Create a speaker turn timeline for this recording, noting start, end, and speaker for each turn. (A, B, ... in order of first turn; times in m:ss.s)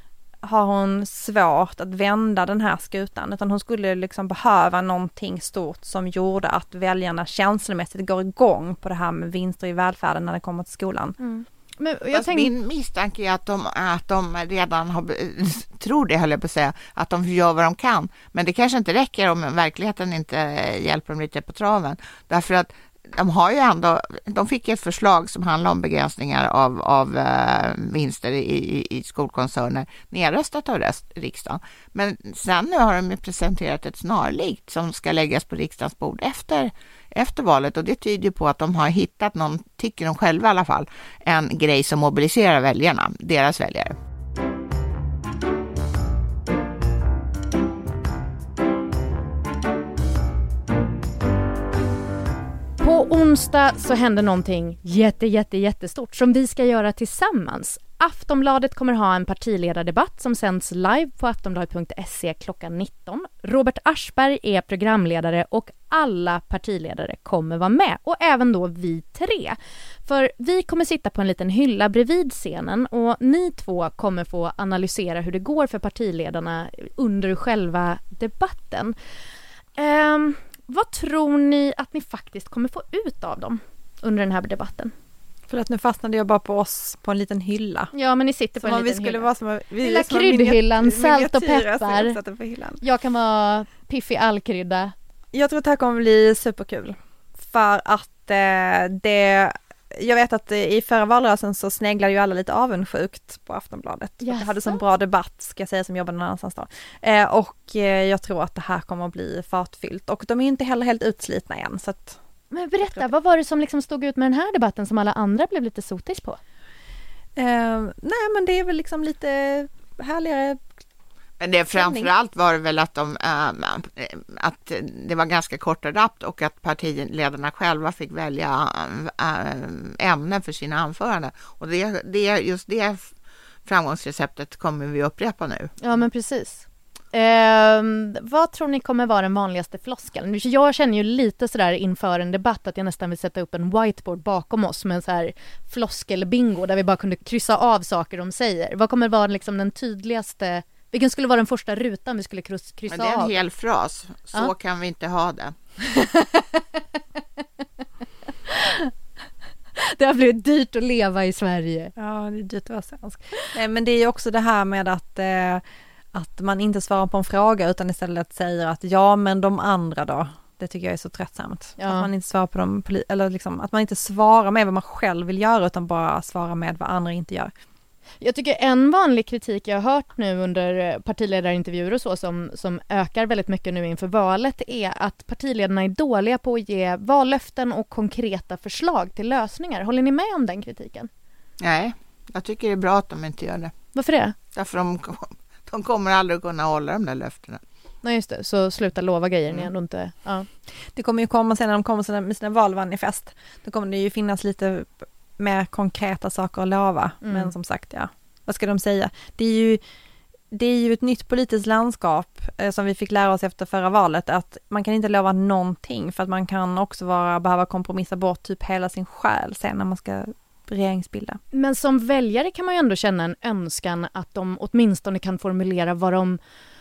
0:00.4-0:11.2 A
0:11.2-0:12.5 B
0:12.1-0:44.0 C
0:52.8-1:19.0 B
1:19.8-1:24.9 B
1:25.5-1:27.9 A
1:27.9-1:29.3 B
1:28.6-1:32.8 A
1:29.8-1:32.2 B
1:32.8-1:34.9 B
1:35.3-1:52.2 A
1:44.2-1:44.8 B
1:52.5-1:56.4 B
1:57.4-2:00.7 A
2:01.4-2:13.1 C
2:01.8-2:02.1 A
2:13.6-2:15.8 C
2:15.8-2:33.4 B
2:32.9-2:35.6 C
2:35.8-2:36.8 B
2:38.5-2:38.9 B
2:39.8-2:41.9 B
2:42.0-2:45.6 A
2:46.1-2:57.5 A
2:51.8-2:52.1 B
2:58.2-3:11.1 B
3:11.6-3:13.7 C
3:14.0-3:14.4 B
3:14.5-3:17.6 C
3:18.0-3:20.5 B
3:20.9-3:29.8 A
3:27.2-3:27.5 B
3:30.5-3:41.4 A
3:41.5-3:46.4 B